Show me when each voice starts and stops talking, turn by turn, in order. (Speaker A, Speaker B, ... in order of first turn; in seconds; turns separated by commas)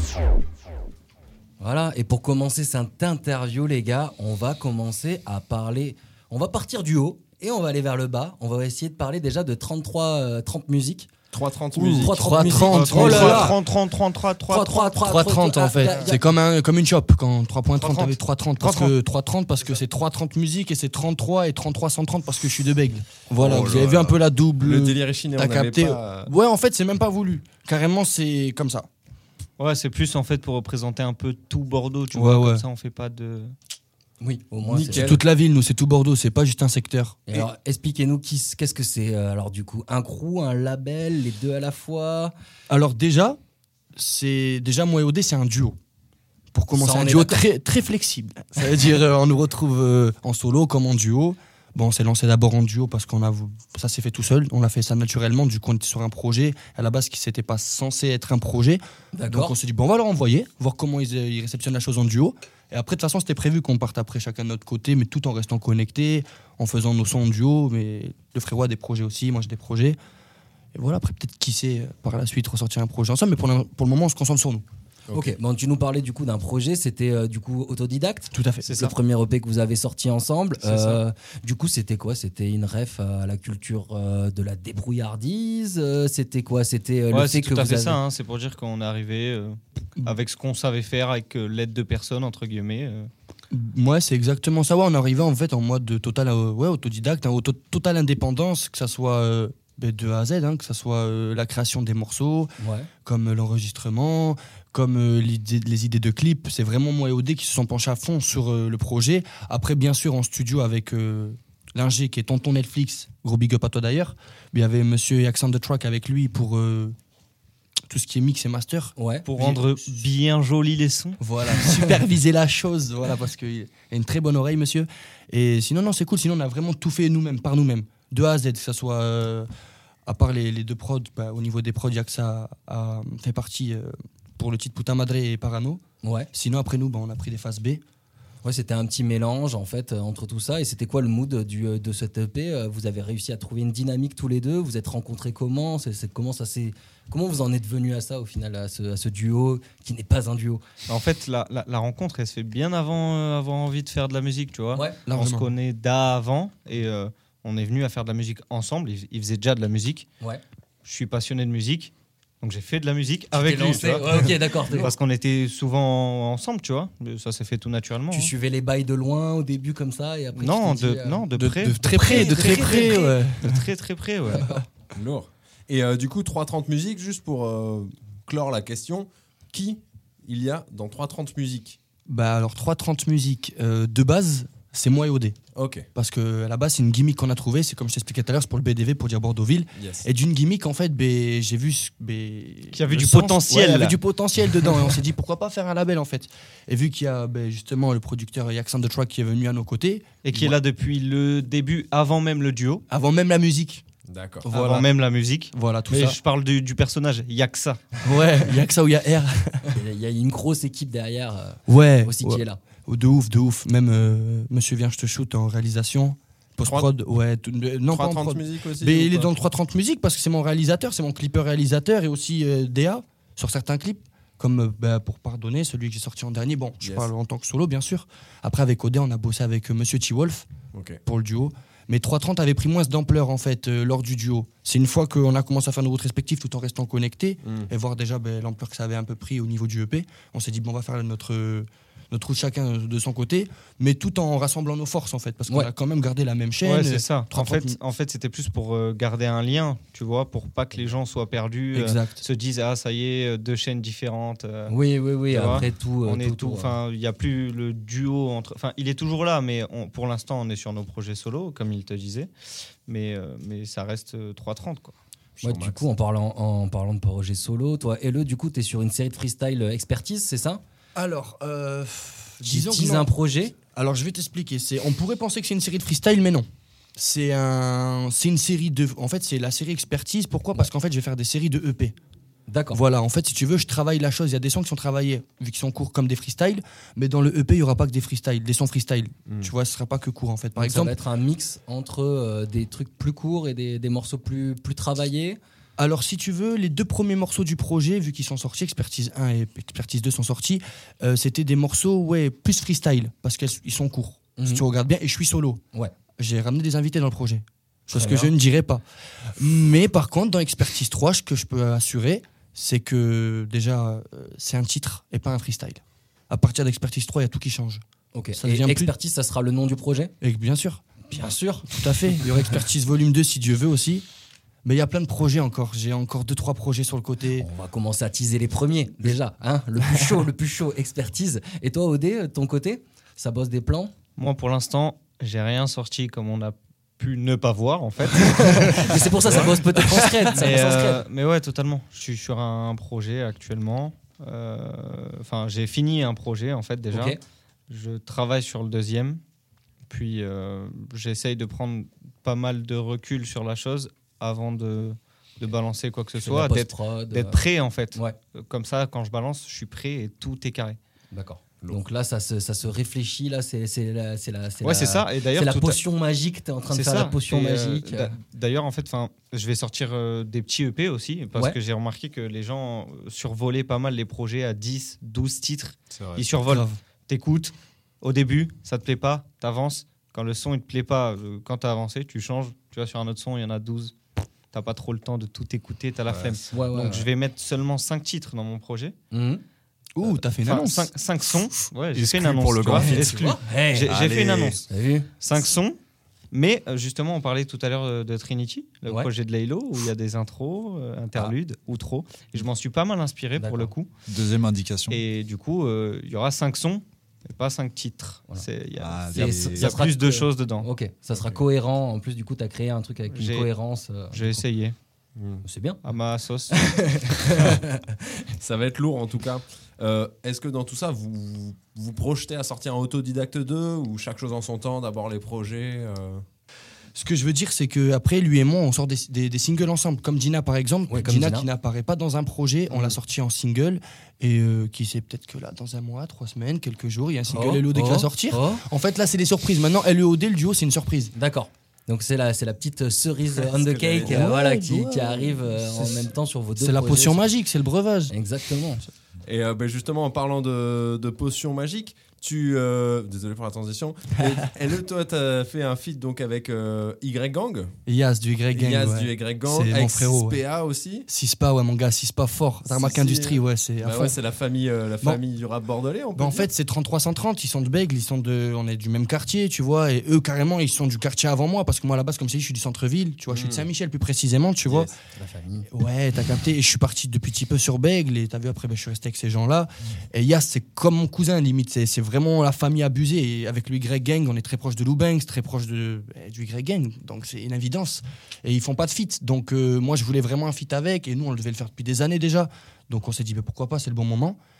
Speaker A: 1.6-11.1, Speaker B: 11.3-13.5, Speaker C: 11.7-13.6, Speaker A: 11.8-13.6, Speaker D: 12.6-15.0, Speaker A: 14.5-16.4, Speaker C: 15.0-28.9, Speaker D: 15.7-16.1, Speaker D: 17.8-18.9, Speaker B: 23.4-26.3, Speaker D: 29.6-33.5, Speaker C: 32.1-32.6, Speaker A: 34.2-35.2, Speaker B: 34.6-35.2, Speaker C: 35.0-37.5, Speaker A: 37.3-42.3, Speaker C: 42.7-43.4, Speaker C: 44.0-45.8, Speaker C: 46.5-70.0, Speaker A: 46.7-47.4, Speaker A: 59.1-59.6, Speaker C: 70.7-74.7, Speaker A: 75.1-88.0, Speaker C: 78.3-78.7, Speaker D: 78.6-79.0, Speaker D: 80.6-81.0, Speaker D: 87.1-93.1, Speaker C: 93.5-102.5, Speaker A: 102.6-102.9, Speaker C: 103.0-117.0, Speaker C: 117.9-120.0, Speaker A: 119.0-119.3, Speaker D: 119.2-121.2, Speaker C: 121.2-129.5, Speaker C: 130.1-135.8, Speaker A: 136.0-136.3, Speaker C: 136.3-137.8, Speaker A: 138.4-150.6, Speaker D: 150.9-160.1, Speaker A: 154.7-155.0, Speaker C: 155.1-155.5, Speaker D: 160.8-168.3, Speaker A: 163.3-164.9, Speaker A: 168.1-171.3, Speaker D: 170.3-174.5, Speaker C: 171.4-173.7, Speaker A: 171.8-173.1, Speaker A: 174.3-174.7, Speaker C: 174.3-174.6, Speaker B: 174.9-181.8, Speaker C: 182.1-185.4, Speaker B: 185.6-185.9, Speaker C: 185.9-200.6, Speaker B: 189.8-190.1, Speaker D: 192.7-194.0, Speaker D: 200.2-202.8, Speaker C: 202.9-203.8, Speaker B: 204.1-204.4, Speaker C: 204.4-204.9, Speaker D: 204.5-208.0, Speaker C: 205.5-206.2, Speaker C: 208.0-209.6, Speaker A: 209.7-212.6, Speaker C: 211.7-230.5, Speaker B: 216.7-216.9, Speaker B: 217.9-219.3, Speaker B: 226.8-227.1, Speaker B: 230.7-231.0, Speaker C: 231.1-247.8, Speaker D: 246.6-254.8, Speaker C: 251.7-252.2, Speaker A: 254.7-256.8, Speaker D: 255.3-262.3, Speaker D: 262.9-265.0, Speaker B: 265.4-265.9, Speaker A: 265.4-270.6, Speaker C: 270.9-273.1, Speaker A: 272.4-273.6, Speaker C: 273.7-276.5, Speaker C: 277.0-281.9, Speaker A: 282.5-282.8, Speaker C: 282.7-291.0, Speaker A: 290.6-295.4, Speaker C: 295.8-305.6, Speaker A: 304.4-304.6, Speaker C: 306.2-308.8, Speaker A: 307.9-308.3, Speaker C: 309.4-317.8, Speaker A: 318.1-320.1, Speaker C: 318.3-318.9, Speaker C: 320.2-320.8, Speaker A: 321.1-321.7, Speaker C: 321.7-324.1, Speaker C: 324.6-327.5, Speaker A: 327.4-333.9, Speaker D: 334.2-347.2, Speaker A: 338.3-341.1, Speaker A: 346.9-347.2, Speaker D: 347.7-349.2, Speaker D: 349.9-360.8, Speaker A: 356.1-358.2, Speaker A: 361.1-368.1, Speaker D: 364.6-365.8, Speaker D: 366.7-383.9, Speaker E: 375.9-376.2, Speaker C: 376.5-376.8, Speaker D: 384.5-388.9, Speaker E: 386.1-386.4, Speaker A: 386.5-387.1, Speaker A: 389.1-389.4, Speaker C: 390.0-390.9, Speaker D: 390.2-394.6, Speaker E: 391.9-394.6, Speaker A: 393.1-393.9, Speaker A: 394.7-395.1, Speaker D: 395.2-395.8, Speaker D: 396.3-403.9, Speaker A: 403.4-403.7, Speaker E: 404.1-405.0, Speaker D: 404.9-410.7, Speaker E: 408.8-409.7, Speaker A: 409.1-414.4, Speaker B: 411.1-411.4, Speaker D: 413.1-413.5, Speaker D: 414.1-414.8, Speaker B: 415.2-415.4, Speaker A: 415.4-415.8, Speaker D: 415.8-416.6, Speaker A: 416.5-418.3, Speaker B: 418.4-426.2, Speaker C: 426.9-441.1, Speaker A: 430.9-431.5, Speaker B: 432.7-433.0, Speaker A: 437.3-438.6, Speaker A: 441.1-447.2, Speaker B: 443.5-444.2, Speaker C: 444.0-446.0, Speaker C: 446.6-448.1, Speaker A: 448.1-448.8, Speaker B: 449.2-457.7, Speaker C: 457.9-460.4, Speaker B: 458.5-461.1, Speaker C: 461.1-464.1, Speaker B: 462.7-466.5, Speaker C: 466.1-474.9, Speaker B: 473.3-473.7, Speaker B: 474.7-474.9, Speaker A: 475.1-475.7, Speaker C: 475.7-494.4